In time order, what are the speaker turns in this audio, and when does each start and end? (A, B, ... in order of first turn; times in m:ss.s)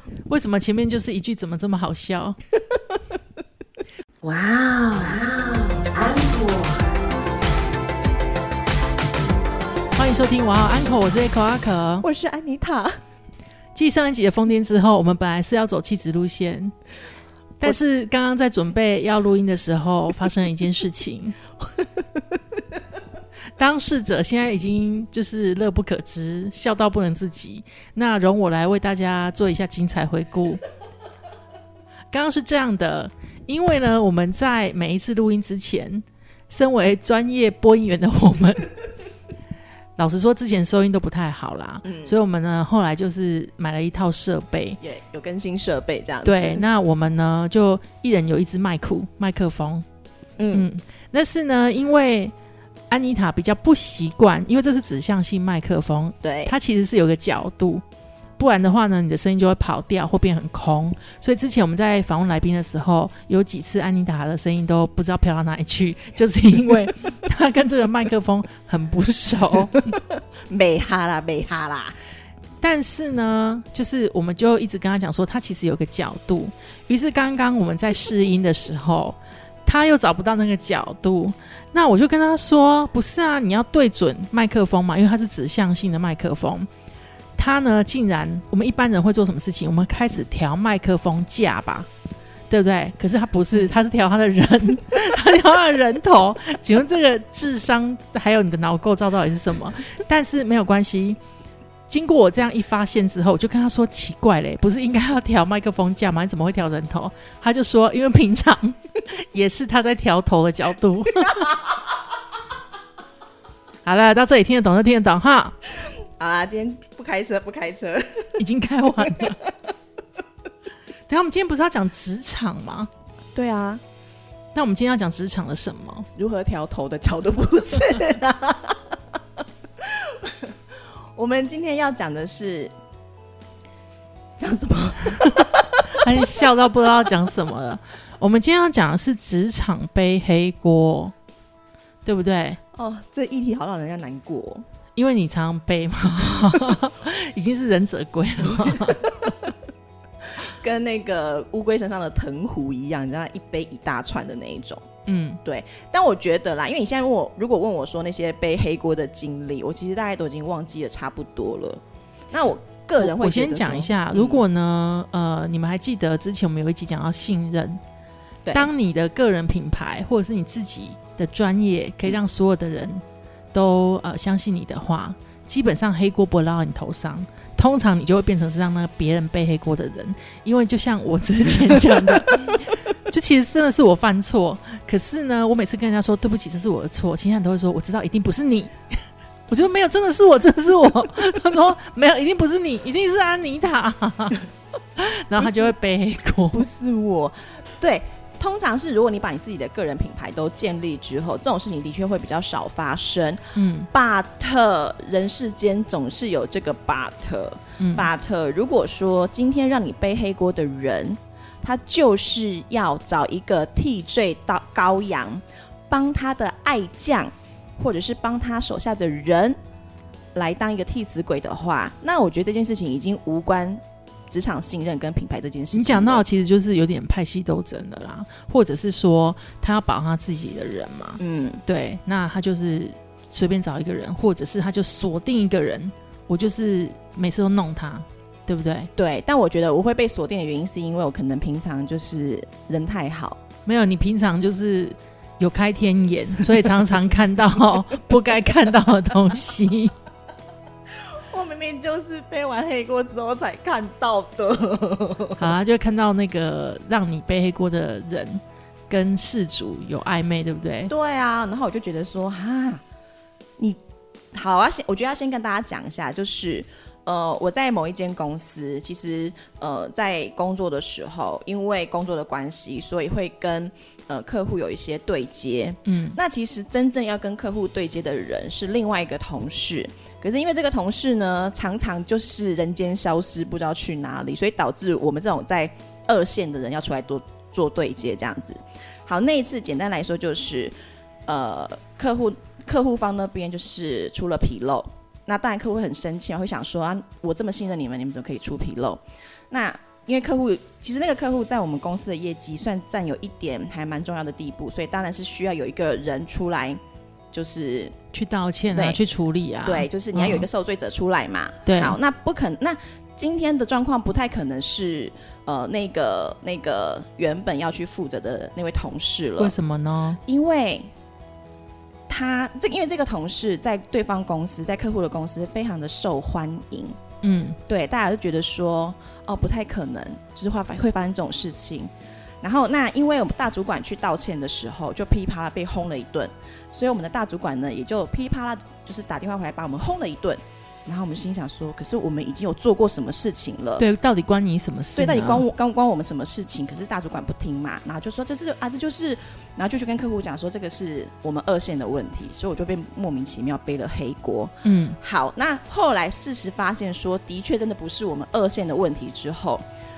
0:00.3-0:02.4 A
0:04.2-0:06.9 B
0:10.0-0:12.0 A
0:12.0-0:13.0 B
0:13.8-0:16.7 A
0:17.6-0:21.4 A
0:21.8-0:22.2 B
0:23.6-0:30.6 A
0:32.1-0:38.7 A
0:40.0-0:44.8 A
0:41.8-0:42.2 B
0:44.8-0:46.6 B
0:46.2-0:49.8 A
0:50.4-0:50.7 B
0:50.5-0:52.3 A
0:52.9-0:57.8 A
0:56.2-0:56.5 B
0:58.4-1:09.8 A
1:09.8-1:12.0 B
1:12.6-1:26.7 A
1:27.4-1:31.9 A
1:32.5-1:41.2 A
1:41.9-1:51.5 A
1:53.8-1:55.6 A
1:55.8-1:58.4 B
1:58.4-1:59.4 A
1:59.0-1:59.5 B
2:01.1-2:02.9 A
2:03.4-2:03.8 B
2:04.5-2:06.1 A
2:06.2-2:08.8 B
2:09.8-2:10.5 B
2:11.2-2:12.7 B
2:14.4-2:16.0 B
2:15.9-2:21.1 A
2:22.0-2:22.6 A
2:22.7-2:24.6 B
2:25.0-2:29.1 A
2:28.7-2:29.5 B
2:30.4-2:34.8 B
2:35.1-2:35.4 A
2:35.4-2:44.4 B
2:43.0-2:47.8 A
2:48.4-2:48.7 B
2:48.5-2:53.0 A
2:53.5-3:08.7 A
3:09.5-3:14.4 A
3:15.0-3:16.6 A
3:15.4-3:15.7 B
3:16.5-3:39.6 B
3:23.6-3:23.9 A
3:27.8-3:28.1 A
3:40.4-3:46.2 B
3:45.7-3:58.9 A
3:51.2-3:51.6 B
3:59.0-4:03.4 B
4:03.7-4:09.9 A
4:11.1-4:15.5 B
4:15.4-4:20.9 A
4:20.9-4:22.8 B
4:24.3-4:50.7 B
4:35.9-4:36.2 A
4:51.3-5:06.8 B
5:07.3-5:08.0 B
5:08.1-5:10.5 A
5:08.7-5:09.0 B
5:09.6-5:19.5 B
5:11.7-5:12.0 A
5:19.4-5:20.2 A
5:20.3-5:20.9 B
5:22.1-5:27.0 B
5:27.2-5:27.6 A
5:27.7-5:43.8 B
5:43.8-5:45.4 A
5:45.0-5:59.6 B
5:54.6-5:55.0 A